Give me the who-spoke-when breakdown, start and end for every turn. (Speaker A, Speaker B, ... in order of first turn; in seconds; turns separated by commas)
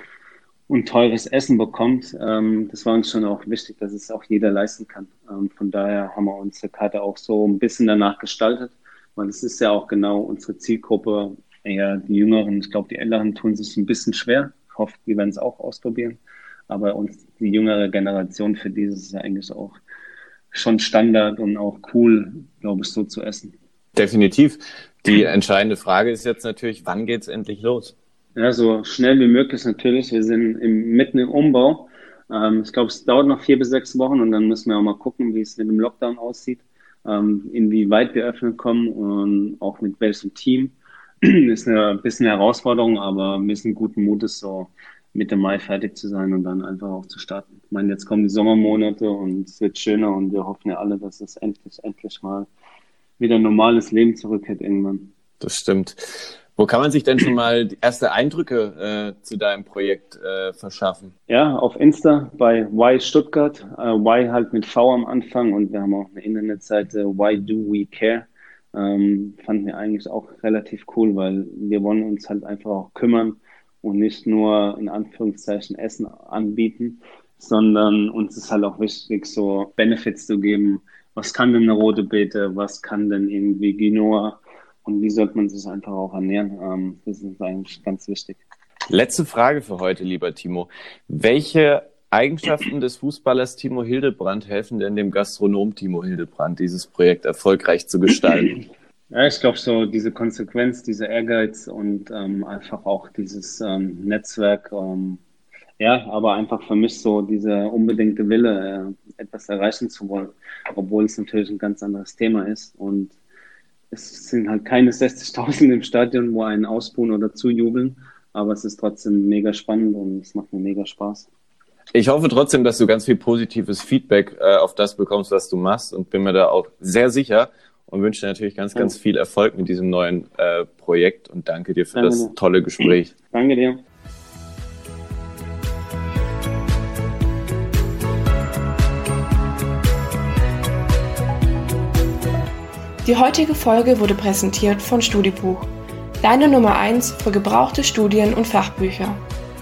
Speaker A: 0.7-16.2, Speaker A: 16.7-19.8, Speaker A: 20.5-23.5, Speaker B: 24.0-27.9, Speaker A: 28.4-52.5, Speaker A: 53.2-55.1, Speaker B: 55.4-61.1, Speaker A: 61.3-88.4, Speaker B: 88.9-98.5, Speaker A: 99.1-105.2, Speaker A: 105.8-113.2, Speaker A: 113.9-121.3, Speaker B: 122.0-133.1, Speaker A: 131.9-132.3, Speaker A: 133.3-133.8, Speaker C: 143.0-145.7, Speaker C: 146.2-149.2